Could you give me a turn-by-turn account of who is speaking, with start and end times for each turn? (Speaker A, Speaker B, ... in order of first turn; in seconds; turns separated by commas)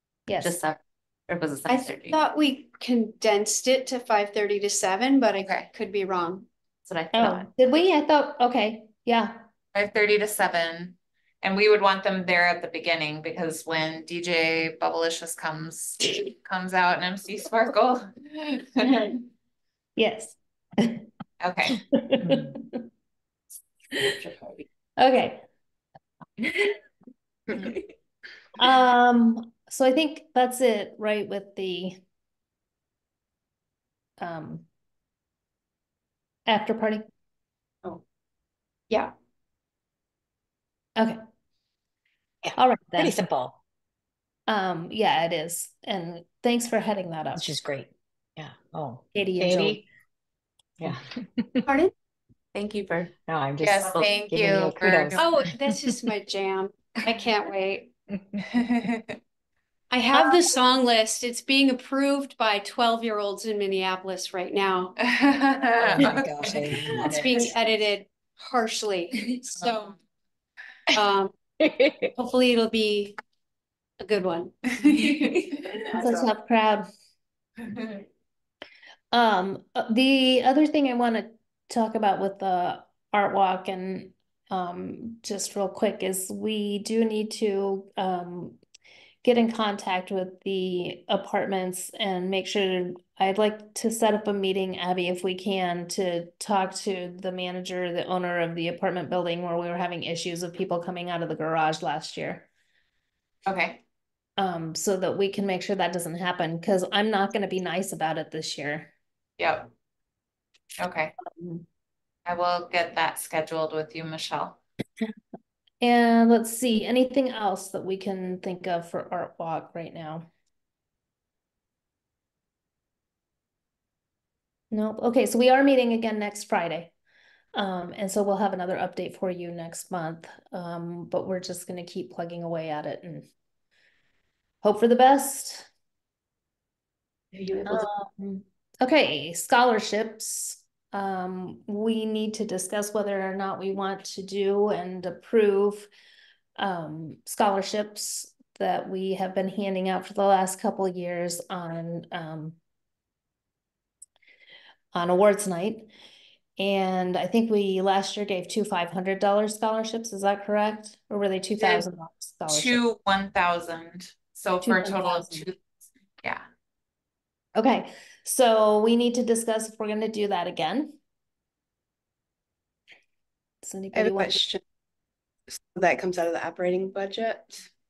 Speaker A: 0.3-0.6, Speaker B: 0.4-2.2, Speaker C: 1.7-6.5, Speaker D: 5.4-5.7, Speaker B: 6.9-7.5, Speaker A: 7.1-9.4, Speaker D: 9.7-19.2, Speaker A: 20.0-21.1, Speaker D: 21.4-21.9, Speaker A: 21.9-22.9, Speaker E: 22.2-22.5, Speaker D: 24.2-24.6, Speaker A: 25.0-25.4, Speaker A: 28.6-32.0, Speaker A: 34.2-34.7, Speaker A: 36.5-37.1, Speaker E: 42.4-43.6, Speaker A: 42.6-43.2, Speaker A: 44.5-47.5, Speaker E: 47.4-49.8, Speaker A: 49.1-49.8, Speaker E: 50.8-51.7, Speaker C: 51.6-51.9, Speaker B: 52.5-53.1, Speaker E: 53.3-55.5, Speaker D: 53.6-55.4, Speaker B: 53.9-54.1, Speaker C: 55.2-57.9, Speaker D: 57.0-57.5, Speaker D: 58.4-59.2, Speaker C: 59.9-64.9, Speaker A: 60.1-60.4, Speaker D: 65.0-67.4, Speaker E: 65.8-67.5, Speaker C: 67.0-70.0, Speaker C: 70.9-71.3, Speaker C: 72.2-73.2, Speaker C: 74.0-74.5, Speaker D: 74.7-76.0, Speaker C: 75.9-76.3, Speaker A: 76.0-76.9, Speaker D: 77.6-78.0, Speaker A: 79.1-88.6, Speaker A: 89.2-102.5, Speaker D: 103.5-103.8, Speaker A: 104.4-108.9, Speaker D: 109.4-109.7, Speaker D: 110.8-111.2, Speaker D: 112.2-114.6, Speaker A: 115.8-120.3, Speaker A: 124.7-126.9, Speaker A: 127.5-133.3, Speaker A: 134.6-135.7, Speaker A: 137.7-145.9, Speaker A: 146.6-152.6, Speaker A: 154.9-155.9, Speaker A: 156.6-162.8, Speaker D: 162.5-165.6, Speaker A: 164.6-165.5, Speaker A: 167.6-171.0, Speaker A: 173.6-174.4, Speaker F: 173.9-174.6, Speaker F: 175.5-177.7